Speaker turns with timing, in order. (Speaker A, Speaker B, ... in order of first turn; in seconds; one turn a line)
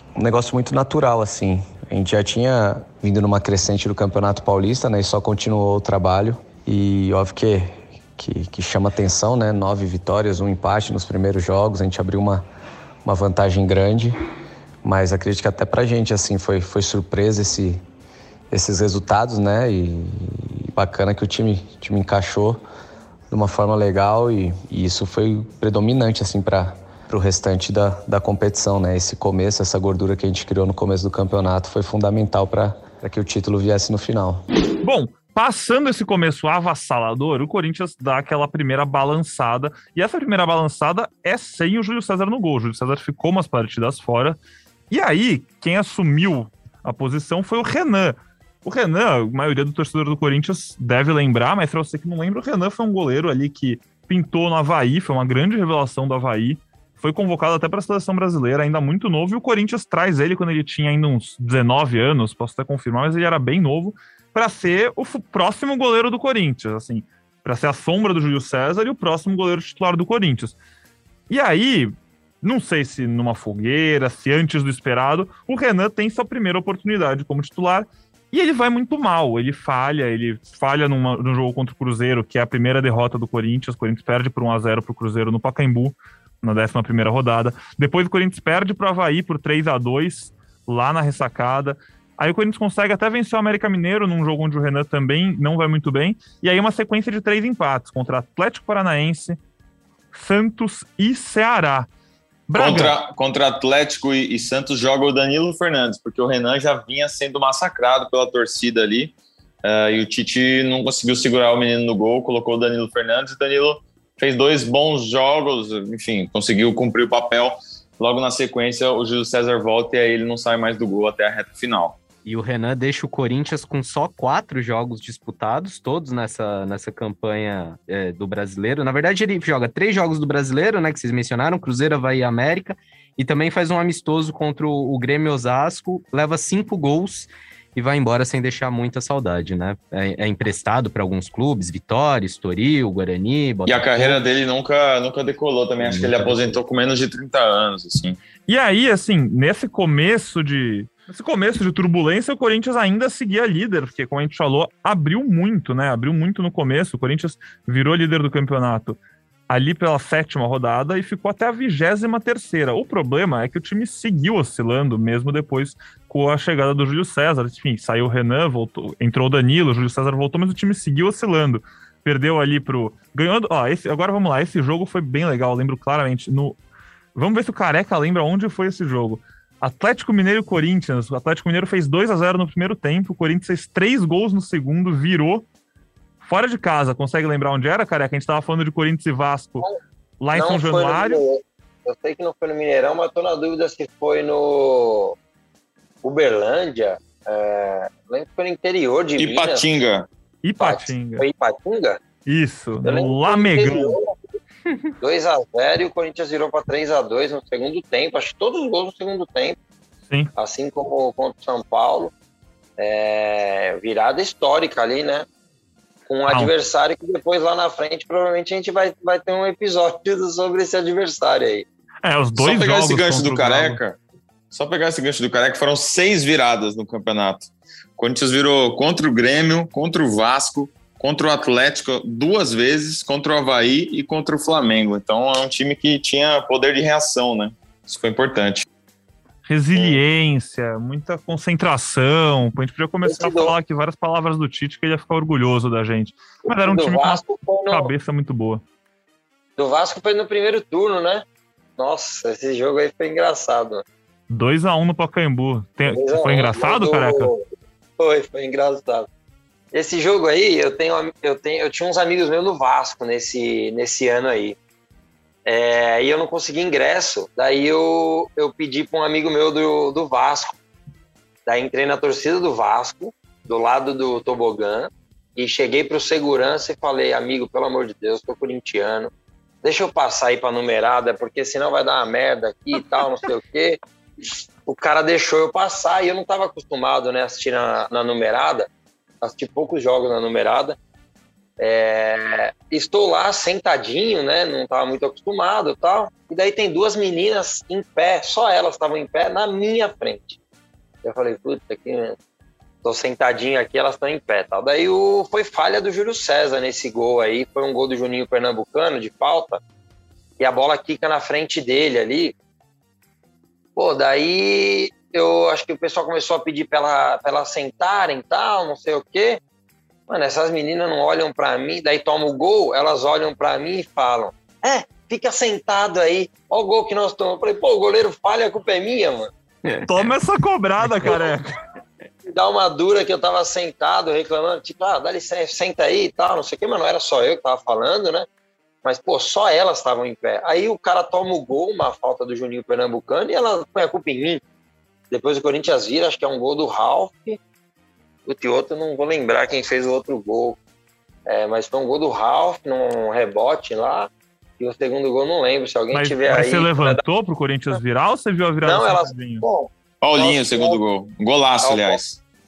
Speaker A: 0.2-12.4
Speaker A: 13.1-14.2
Speaker A: 14.8-17.8
Speaker A: 18.5-22.6
Speaker A: 23.3-34.4
Speaker B: 34.8-44.4
Speaker B: 44.9-70.6
Speaker B: 71.3-99.4
Speaker B: 100.1-101.9
Speaker B: 102.5-103.0
Speaker C: 102.5-109.1
Speaker C: 109.7-122.0
Speaker D: 122.2-144.2
Speaker C: 143.7-148.2
Speaker D: 145.8-146.6
Speaker B: 148.5-159.0
Speaker B: 159.5-176.6
Speaker B: 177.2-185.5
Speaker B: 186.2-189.7
Speaker B: 190.2-191.2
Speaker E: 190.3-195.2
Speaker E: 196.0-199.7
Speaker C: 199.2-200.1
Speaker B: 200.4-201.2
Speaker E: 200.6-202.0
Speaker B: 202.3-203.9
Speaker E: 202.8-204.2
Speaker E: 205.0-209.6
Speaker E: 210.4-212.1
Speaker E: 212.8-215.3
Speaker E: 216.1-221.7
Speaker B: 222.0-223.8
Speaker C: 222.4-224.0
Speaker C: 224.5-238.7
Speaker B: 239.5-248.6
Speaker E: 243.1-243.5
Speaker E: 246.5-247.9
Speaker E: 249.6-251.2
Speaker E: 251.8-253.8
Speaker B: 254.3-257.3
Speaker E: 255.9-257.4
Speaker E: 258.0-259.1
Speaker E: 259.7-264.6
Speaker E: 265.5-270.6
Speaker E: 271.5-279.1
Speaker E: 279.6-288.7
Speaker E: 289.2-290.8
Speaker E: 291.6-300.4
Speaker E: 301.0-302.2
Speaker E: 302.8-309.6
Speaker E: 310.4-312.3
Speaker E: 313.8-319.4
Speaker E: 320.1-329.3
Speaker B: 329.7-331.5
Speaker E: 332.3-338.3
Speaker E: 338.8-344.4
Speaker E: 345.1-347.4
Speaker E: 348.3-350.6
Speaker E: 351.3-357.0
Speaker B: 355.9-359.4
Speaker E: 358.6-360.8
Speaker C: 360.0-362.2
Speaker E: 361.6-362.0